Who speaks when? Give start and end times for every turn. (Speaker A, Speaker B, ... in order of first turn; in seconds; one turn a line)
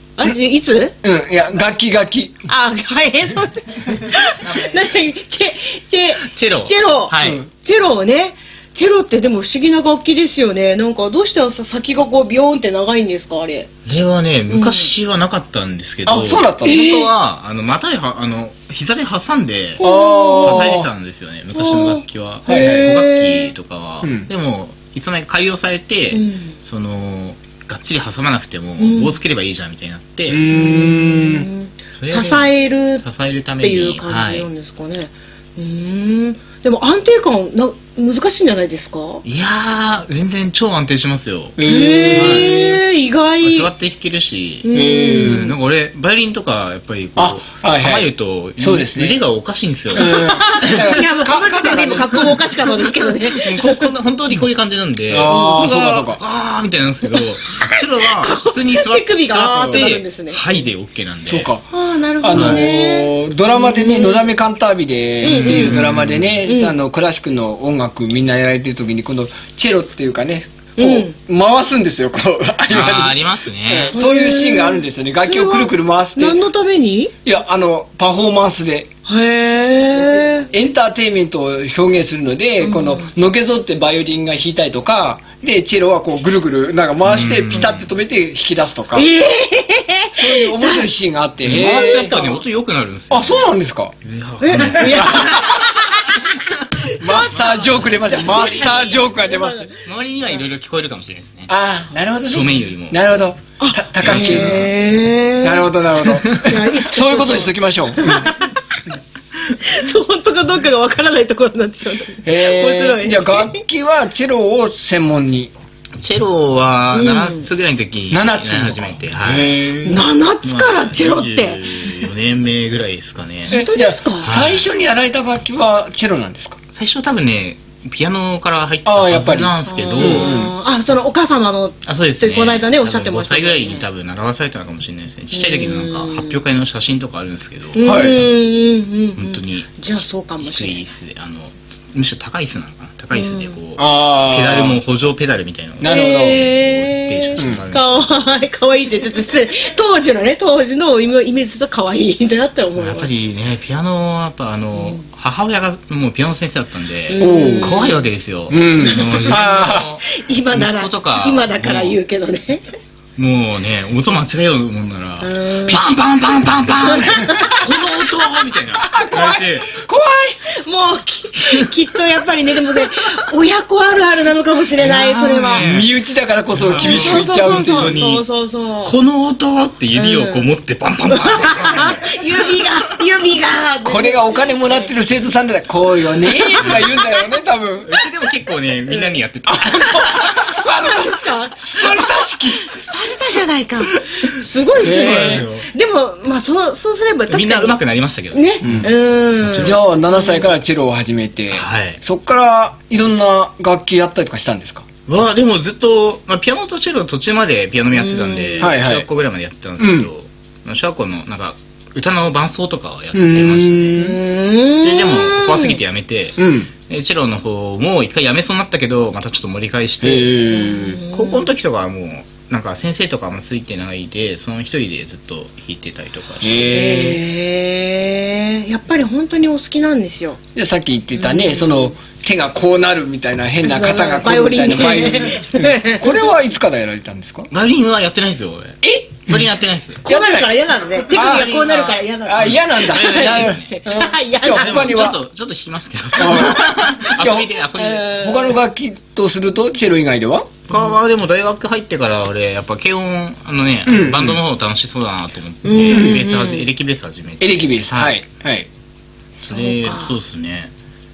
Speaker A: 0.2-0.9
Speaker B: 1.0-2.5
Speaker A: 2.5-13.7
Speaker C: 4.4-4.9
Speaker C: 6.2-7.4
Speaker B: 7.2-7.5
Speaker C: 13.8-19.8
Speaker A: 14.5-14.9
Speaker B: 16.0-17.1
Speaker A: 16.7-17.0
Speaker A: 19.8-20.8
Speaker B: 19.8-20.9
Speaker C: 20.4-30.4
Speaker A: 21.5-23.5
Speaker B: 22.5-23.0
Speaker B: 24.0-24.3
Speaker A: 26.1-26.6
Speaker A: 28.8-29.2
Speaker B: 30.3-31.5
Speaker A: 30.5-33.0
Speaker C: 32.0-34.5
Speaker A: 33.6-39.2
Speaker C: 39.2-41.6
Speaker B: 41.6-42.6
Speaker A: 41.6-43.7
Speaker C: 42.1-42.8
Speaker C: 43.4-44.7
Speaker A: 44.6-45.5
Speaker B: 44.7-45.5
Speaker C: 45.2-50.9
Speaker B: 47.1-49.2
Speaker B: 49.9-52.4
Speaker A: 50.0-53.9
Speaker C: 53.3-61.5
Speaker B: 55.1-56.2
Speaker A: 55.2-56.1
Speaker A: 57.1-60.4
Speaker B: 59.5-59.8
Speaker B: 61.2-61.6
Speaker A: 61.7-64.3
Speaker B: 62.2-76.4
Speaker C: 62.3-62.6
Speaker A: 65.2-65.8
Speaker C: 65.2-66.5
Speaker A: 66.5-66.8
Speaker A: 70.8-71.1
Speaker C: 72.7-74.0
Speaker A: 73.9-77.1
Speaker B: 77.2-78.9
Speaker A: 79.0-80.5
Speaker B: 80.5-89.1
Speaker A: 82.6-83.1
Speaker C: 87.0-87.9
Speaker A: 88.9-90.8
Speaker B: 90.1-92.2
Speaker C: 91.4-93.5
Speaker A: 91.6-92.4
Speaker B: 93.1-93.9
Speaker C: 94.0-95.5
Speaker A: 94.4-96.2
Speaker B: 94.6-95.7
Speaker A: 96.9-99.7
Speaker B: 97.0-99.7
Speaker C: 97.1-99.0
Speaker C: 99.8-101.5
Speaker B: 101.5-104.6
Speaker C: 102.2-103.0
Speaker A: 103.6-105.7
Speaker C: 104.0-104.7
Speaker B: 105.4-108.3
Speaker A: 106.4-108.8
Speaker A: 109.6-113.6
Speaker B: 112.2-115.5
Speaker C: 116.0-119.5
Speaker A: 116.9-117.5
Speaker B: 118.1-120.0
Speaker A: 119.8-122.0
Speaker C: 120.4-123.6
Speaker A: 123.5-124.3
Speaker B: 123.5-126.6
Speaker C: 124.2-124.7
Speaker C: 126.7-130.3
Speaker B: 128.8-130.5
Speaker A: 129.7-133.8
Speaker C: 131.8-137.9
Speaker A: 135.3-136.4
Speaker A: 137.7-140.8
Speaker B: 137.8-138.2
Speaker C: 139.2-139.8
Speaker C: 140.4-148.0
Speaker A: 143.1-143.6
Speaker B: 143.8-144.8
Speaker B: 145.8-146.5
Speaker A: 145.8-153.1
Speaker B: 147.4-147.6
Speaker C: 152.8-162.0
Speaker A: 154.8-155.0
Speaker A: 157.1-158.0
Speaker B: 157.2-157.8
Speaker B: 158.5-159.9
Speaker A: 158.8-159.4
Speaker A: 160.1-162.6
Speaker C: 163.2-169.7
Speaker A: 165.2-165.9
Speaker A: 166.9-167.9
Speaker B: 168.8-170.4
Speaker A: 170.6-175.7
Speaker C: 174.8-175.9
Speaker B: 175.6-178.0
Speaker C: 176.5-178.2
Speaker A: 176.7-178.9
Speaker C: 178.8-182.8
Speaker A: 179.9-180.5
Speaker A: 181.1-184.9
Speaker B: 183.8-187.9
Speaker A: 186.2-187.2
Speaker C: 186.6-186.9
Speaker C: 187.8-190.5
Speaker A: 188.9-189.2
Speaker B: 189.4-192.7
Speaker A: 190.7-197.8
Speaker C: 194.8-195.7
Speaker B: 194.8-195.4
Speaker C: 197.3-199.8
Speaker A: 198.3-200.5
Speaker B: 198.6-198.9
Speaker B: 199.6-204.8
Speaker C: 201.5-202.0
Speaker C: 205.1-214.0
Speaker A: 207.9-208.7
Speaker B: 208.6-209.1
Speaker B: 209.8-210.1
Speaker B: 213.1-214.2
Speaker A: 213.9-215.8
Speaker C: 214.8-220.5
Speaker B: 216.4-216.7
Speaker B: 220.0-221.0
Speaker A: 220.5-221.5
Speaker C: 221.1-227.1
Speaker B: 226.4-227.2
Speaker A: 226.7-230.4
Speaker B: 230.5-237.5
Speaker A: 231.2-231.9
Speaker A: 233.6-236.2
Speaker C: 237.5-240.0
Speaker B: 238.8-239.4
Speaker B: 240.0-240.5
Speaker A: 240.0-245.1
Speaker B: 241.1-245.2
Speaker C: 241.2-241.7
Speaker C: 242.4-243.8
Speaker C: 244.4-248.1
Speaker B: 246.2-247.5
Speaker A: 247.8-248.6
Speaker B: 248.2-250.5
Speaker C: 250.7-258.1
Speaker B: 253.8-254.4
Speaker A: 255.6-256.7
Speaker B: 255.9-256.2
Speaker B: 257.4-258.7
Speaker A: 259.4-260.1
Speaker C: 259.4-260.7